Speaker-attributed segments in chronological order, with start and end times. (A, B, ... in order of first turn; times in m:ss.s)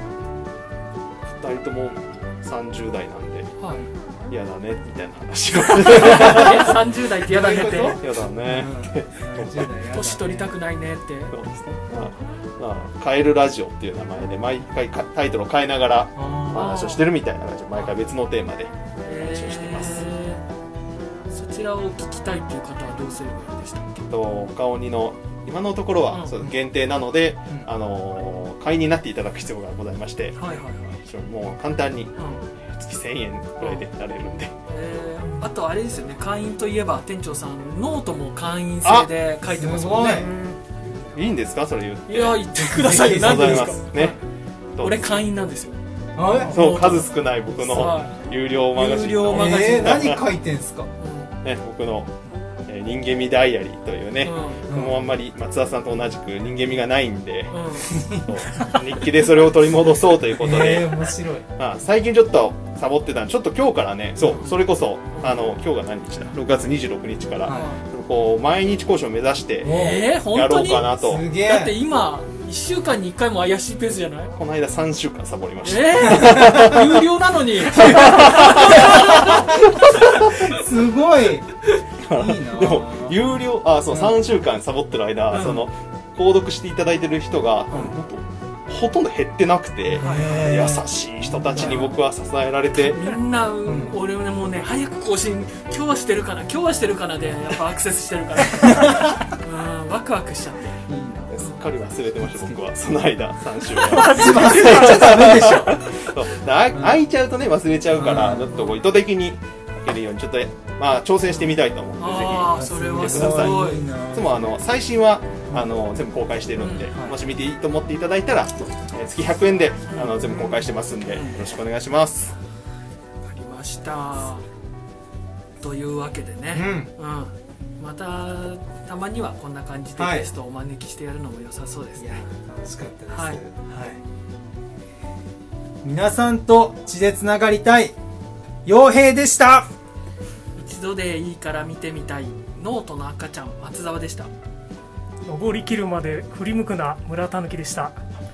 0:01.2-0:03.5 A
0:03.6-0:03.9 B
0:04.3-0:06.8 A
0:05.8-0:08.0 B
0:06.2-0:06.6 C
0:07.2-0:10.5 C
0:07.6-0:09.7 A
0:09.9-0:11.3 B
0:11.3-0:20.1 A
0:16.2-0:16.8 C
0:16.5-0:17.1 B
0:19.0-0:20.4 B
0:21.3-0:24.1 B
0:24.1-0:34.5 A
0:30.4-0:31.0 B
0:32.2-0:32.4 B
0:33.6-0:33.8 B
0:34.7-0:40.3 B
0:38.8-0:39.1 A
0:39.5-0:40.3 C
0:40.0-0:41.1 D
0:41.1-0:44.2 A
0:42.1-0:44.2 B
0:42.5-0:43.8 C
0:44.7-0:45.2 A
0:44.8-0:48.2 B
0:46.2-0:46.6 C
0:46.5-0:50.3 A
0:48.8-0:50.1 B
0:48.8-0:50.9 C
0:51.0-0:51.3 B
0:51.4-1:11.2 A
0:54.2-0:54.6 B
0:54.7-0:55.0 C
0:57.5-0:57.9 B
0:57.9-0:58.3 C
1:00.4-1:01.5 C
1:04.2-1:05.4 B
1:07.4-1:07.7 C
1:07.5-1:07.8 B
1:09.6-1:10.1 C
1:09.6-1:14.3 B
1:10.9-1:11.7 C
1:14.3-1:17.1 A
1:15.6-1:19.6 B
1:16.1-1:16.6 C
1:17.6-1:20.6 A
1:17.9-1:19.6 C
1:20.3-1:21.5 C
1:22.0-1:33.1 A
1:22.1-1:23.2 C
1:23.9-1:24.2 C
1:25.3-1:25.6 B
1:27.7-1:28.0 C
1:30.0-1:31.9 C
1:30.0-1:30.5 B
1:31.5-1:31.9 B
1:32.8-1:41.7 B
1:33.6-1:34.0 C
1:38.5-1:39.2 C
1:40.8-1:41.3 C
1:41.3-2:02.3 A
1:42.2-1:42.6 C
1:43.8-1:45.8 C
1:43.9-1:45.0 D
1:44.0-1:44.4 B
1:46.7-1:47.0 C
1:47.9-1:48.5 C
1:51.3-1:53.8 B
1:52.6-1:54.4 C
1:56.6-1:56.9 B
1:56.9-1:57.2 C
1:59.9-2:00.3 B
2:01.0-2:01.4 B
2:03.2-2:04.4 B
2:05.6-2:12.3 B
2:06.5-2:06.9 C
2:10.0-2:10.3 C
2:12.0-2:14.0 C
2:13.1-2:13.4 B
2:15.8-2:18.0 C
2:18.6-2:19.7 C
2:20.6-2:24.3 B
2:25.2-2:28.0 D